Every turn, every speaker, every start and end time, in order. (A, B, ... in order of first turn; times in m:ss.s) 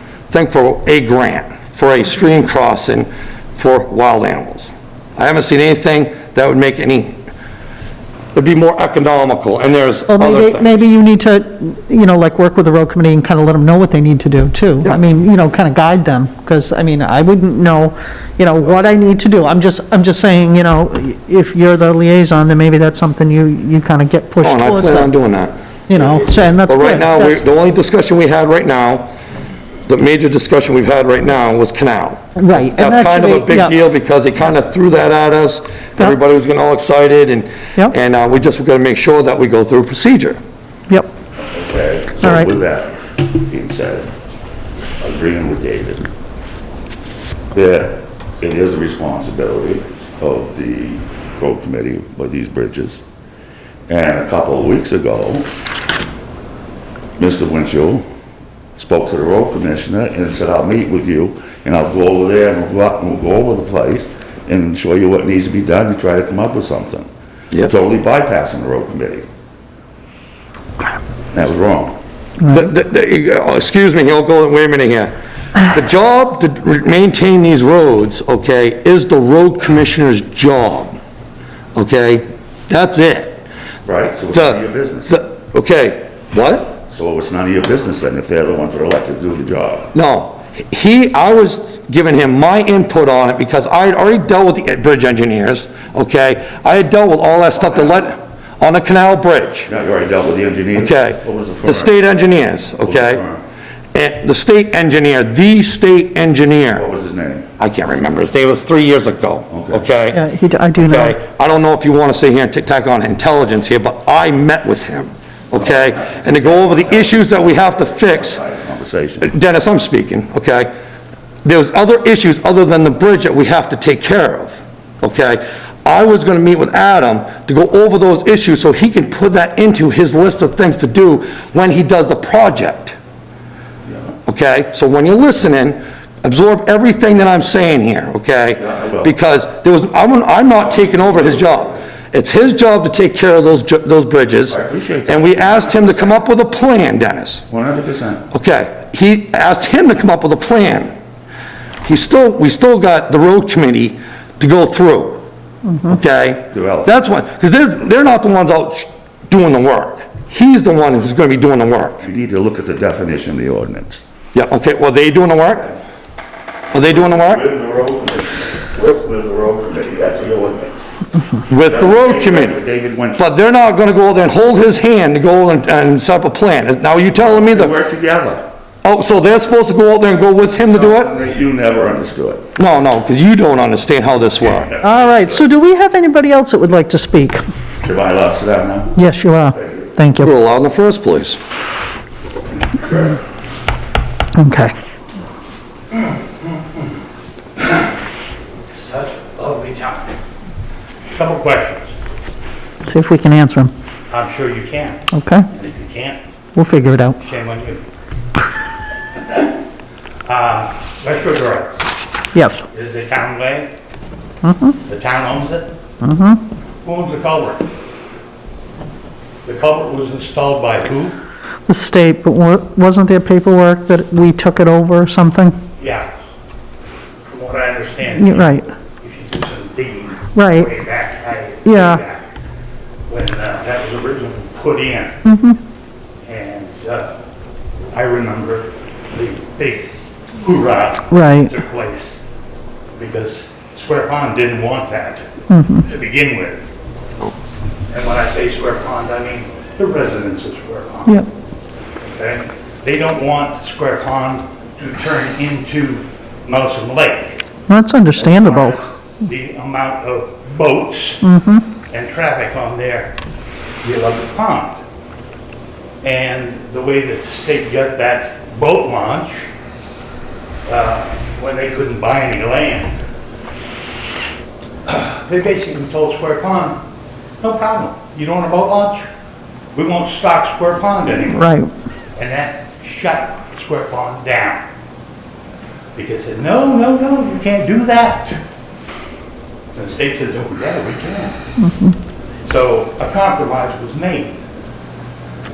0:00.3-0:07.2 A
0:08.3-0:10.9 A
0:10.1-0:25.1 B
0:24.4-0:25.5 A
0:25.9-0:27.4 B
0:26.6-0:29.1 A
0:29.9-0:40.4 A
0:32.4-0:33.7 B
0:41.4-0:44.1 C
0:42.2-0:42.5 B
0:45.0-0:46.1 C
0:47.5-0:53.0 C
0:53.9-0:55.5 C
0:57.2-0:58.0 C
0:58.8-1:09.2 C
1:11.3-1:12.0 C
1:12.4-1:21.0 A
1:21.7-1:23.4 A
1:23.8-1:25.2 C
1:24.3-1:26.7 A
1:26.9-1:29.9 C
1:29.9-1:39.7 A
1:37.5-1:38.0 C
1:39.7-1:41.9 C
1:40.8-1:43.2 A
1:42.8-1:43.4 C
1:43.9-1:46.8 A
1:46.7-1:47.5 C
1:47.6-1:50.2 A
1:49.5-1:49.9 C
1:50.1-1:51.2 B
1:50.8-1:58.4 A
1:55.5-1:59.3 C
1:59.2-2:00.7 A
2:01.4-2:12.9 A
2:13.8-2:14.1 C
2:14.2-2:27.4 A
2:18.6-2:19.1 C
2:20.6-2:21.8 C
2:24.5-2:26.2 C
2:27.5-2:28.2 C
2:28.3-2:30.9 A
2:31.8-2:35.2 A
2:35.8-2:42.0 A
2:36.5-2:36.9 C
2:42.0-2:44.0 C
2:44.3-2:45.7 A
2:46.7-2:47.4 A
2:46.7-2:50.8 C
2:51.5-2:52.6 A
2:51.6-2:53.2 C
2:53.2-2:57.7 A
2:57.2-2:58.4 C
2:58.8-3:01.1 A
3:00.7-3:02.4 C
3:02.6-3:04.7 A
3:04.4-3:05.4 C
3:04.8-3:07.4 B
3:07.8-3:09.0 C
3:09.0-3:10.3 B
3:09.5-3:09.9 C
3:10.2-3:11.4 A
3:12.7-3:13.2 C
3:14.3-3:14.7 B
3:15.9-3:16.9 D
3:18.7-3:20.1 D
3:21.1-3:21.9 D
3:22.8-3:23.7 B
3:24.1-3:26.2 D
3:25.1-3:25.5 B
3:26.5-3:27.2 B
3:27.2-3:27.8 D
3:30.2-3:31.8 D
3:32.3-3:32.6 B
3:32.7-3:33.7 D
3:34.4-3:34.8 B
3:34.8-3:35.7 D
3:36.0-3:36.4 B
3:36.8-3:37.7 D
3:39.4-3:41.2 D
3:41.6-3:45.6 B
3:45.8-3:46.1 D
3:47.2-3:52.3 D
3:48.2-3:48.7 B
3:50.3-3:50.7 B
3:51.6-3:52.0 B
3:53.1-3:55.2 D
3:55.2-3:55.6 B
3:56.2-3:57.2 D
3:57.9-4:02.1 D
4:01.1-4:01.5 B
4:03.0-4:05.2 D
4:05.5-4:05.8 B
4:05.8-4:06.6 D
4:07.9-4:11.2 D
4:12.0-4:17.4 D
4:17.7-4:18.8 B
4:18.1-4:21.2 D
4:21.2-4:21.7 B
4:21.9-4:23.1 D
4:23.8-4:24.8 D
4:26.0-4:29.4 D
4:30.6-4:33.0 D
4:34.9-4:36.8 D
4:37.4-4:39.0 D
4:39.7-4:41.5 D
4:41.3-4:41.7 B
4:42.2-4:44.6 D
4:45.9-4:48.4 D
4:49.7-4:51.4 D
4:51.6-4:52.0 B
4:52.4-4:54.4 D